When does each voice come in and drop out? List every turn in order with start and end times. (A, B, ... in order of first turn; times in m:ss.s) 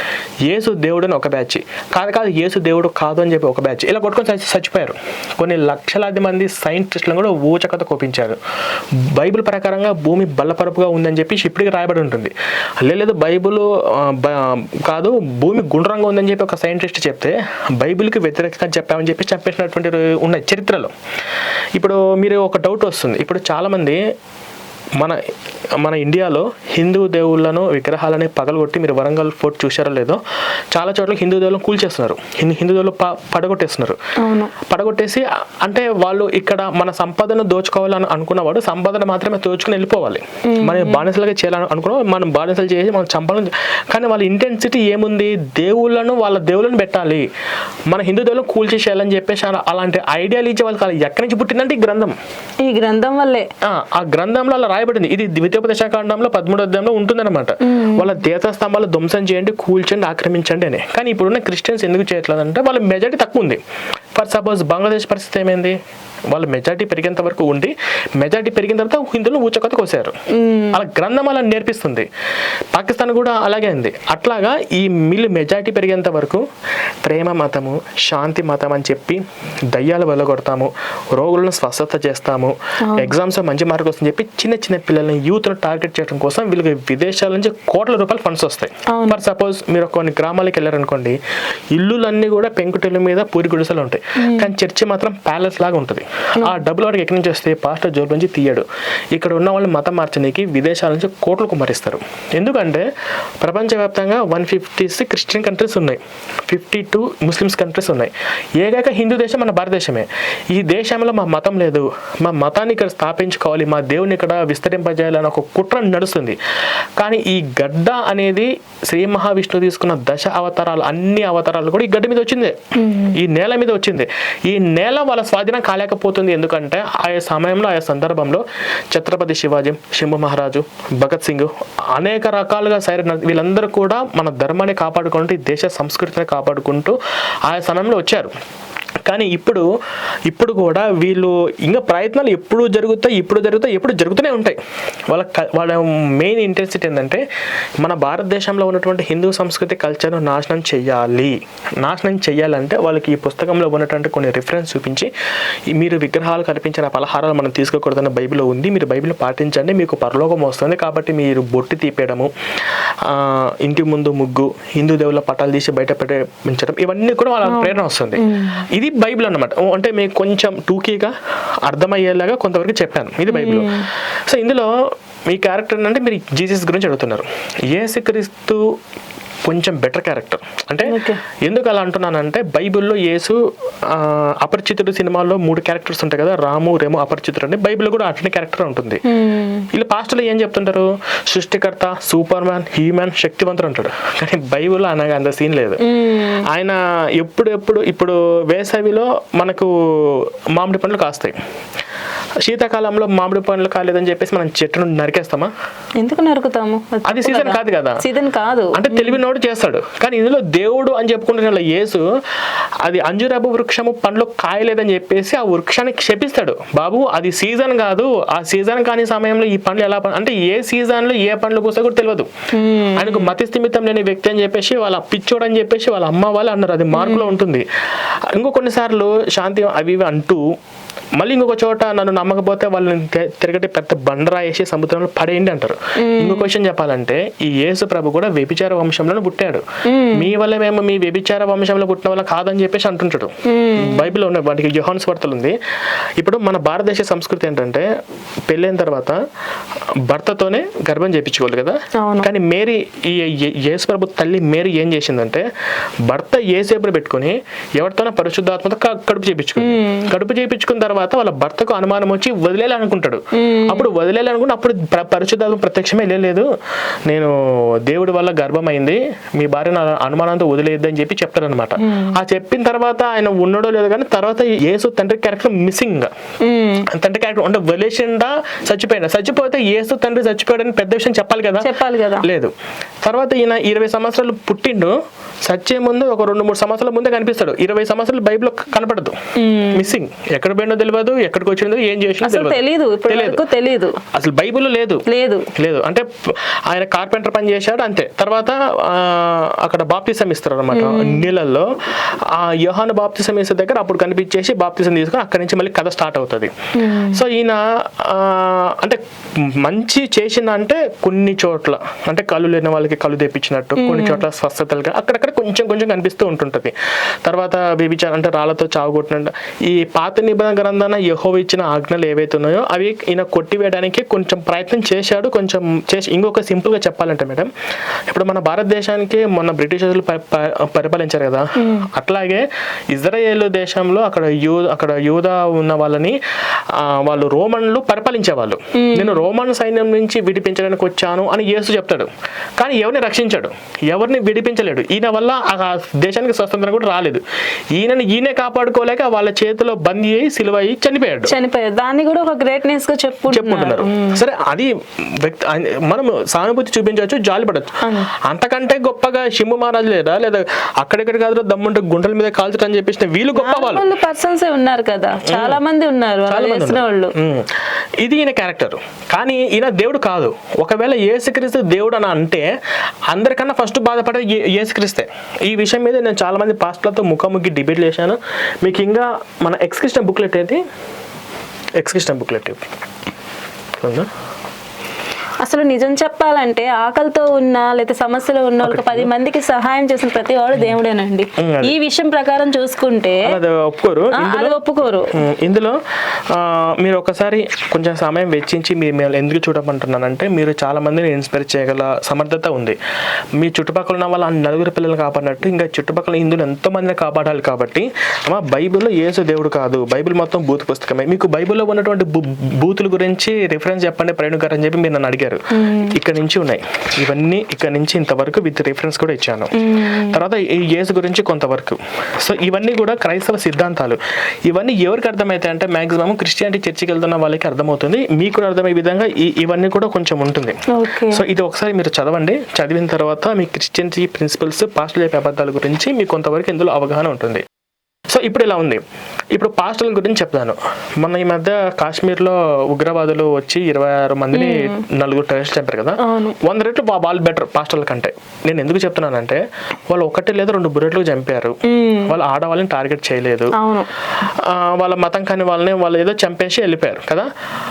0:00.4-0:08.4 A
0:09.0-0:12.3 A
0:12.8-0:20.9 A
0:21.8-0:24.0 A
0:25.8-0:30.2 A
0:30.7-0:34.0 A
0:34.2-0:34.5 B
0:34.6-0:47.2 A
0:40.5-0:41.0 B
0:47.9-0:52.1 A
0:52.6-0:53.5 B
0:53.6-1:03.6 A
0:57.6-0:58.1 B
1:04.1-1:05.8 A
1:06.3-1:10.2 A
1:10.3-1:10.8 B
1:10.7-1:12.1 A
1:12.7-1:16.4 A
1:17.0-1:31.2 A
1:22.8-1:23.1 B
1:28.9-1:29.2 B
1:31.7-1:42.8 A
1:34.2-1:34.5 B
1:43.4-1:56.4 A
1:57.0-2:02.6 A
2:02.7-2:03.2 B
2:03.1-2:18.3 A
2:19.0-2:19.6 A
2:20.3-2:24.6 A
2:25.1-2:27.2 A
2:27.8-2:35.1 A
2:35.7-2:51.1 A
2:47.4-2:48.6 B
2:51.6-2:58.6 A
2:53.3-2:53.9 B
2:59.4-3:09.0 A
3:00.8-3:01.2 B
3:09.1-3:09.7 B
3:09.7-3:15.8 A
3:15.8-3:16.4 B
3:16.4-3:21.4 A
3:22.4-3:25.5 A
3:26.0-3:29.2 B
3:27.0-3:28.0 A
3:28.7-3:32.0 A
3:32.8-3:42.3 A
3:42.5-3:43.3 B
3:42.9-3:47.6 A
3:46.9-3:47.3 B
3:48.3-3:50.4 A
3:51.2-4:05.6 A
3:56.0-3:56.5 B
3:59.8-4:00.3 B
4:03.4-4:04.1 B
4:06.2-4:07.9 A
4:08.5-4:09.2 A
4:10.1-4:15.4 A
4:11.9-4:12.3 B
4:16.1-4:26.5 A
4:19.6-4:20.1 B
4:23.3-4:23.9 B
4:27.0-4:36.1 A
4:31.8-4:32.2 B
4:36.4-4:36.9 B
4:36.9-4:42.5 A
4:41.6-4:42.3 B
4:43.0-4:49.2 A
4:49.4-4:49.9 B
4:49.7-4:53.4 A
4:52.2-4:54.0 B
4:54.1-4:55.0 A
4:55.1-4:55.5 B
4:55.6-5:27.5 A
5:00.7-5:01.2 B
5:06.7-5:07.2 B
5:13.8-5:14.2 B
5:28.1-5:36.2 A
5:31.6-5:31.9 B
5:36.7-5:47.2 A
5:38.7-5:39.2 B
5:47.7-5:51.4 A
5:51.3-5:54.2 B
5:53.3-6:03.9 A
5:57.8-5:58.1 B
6:03.4-6:07.1 B
6:05.2-6:05.6 A
6:06.3-6:12.5 A
6:13.1-6:20.6 A
6:21.8-6:22.6 A
6:23.8-6:24.1 A
6:25.4-6:33.4 B
6:28.6-6:29.1 A
6:31.4-6:31.7 A
6:33.2-6:35.8 A
6:34.1-6:35.1 B
6:36.3-6:42.8 A
6:43.4-7:17.4 A
6:55.5-6:55.9 B
6:59.5-7:00.2 B
7:10.7-7:11.2 B
7:18.1-7:18.8 A
7:19.3-7:33.5 A
7:24.3-7:24.8 B
7:26.0-7:26.4 B
7:31.6-7:32.1 B
7:33.5-7:33.9 B
7:34.2-7:37.3 A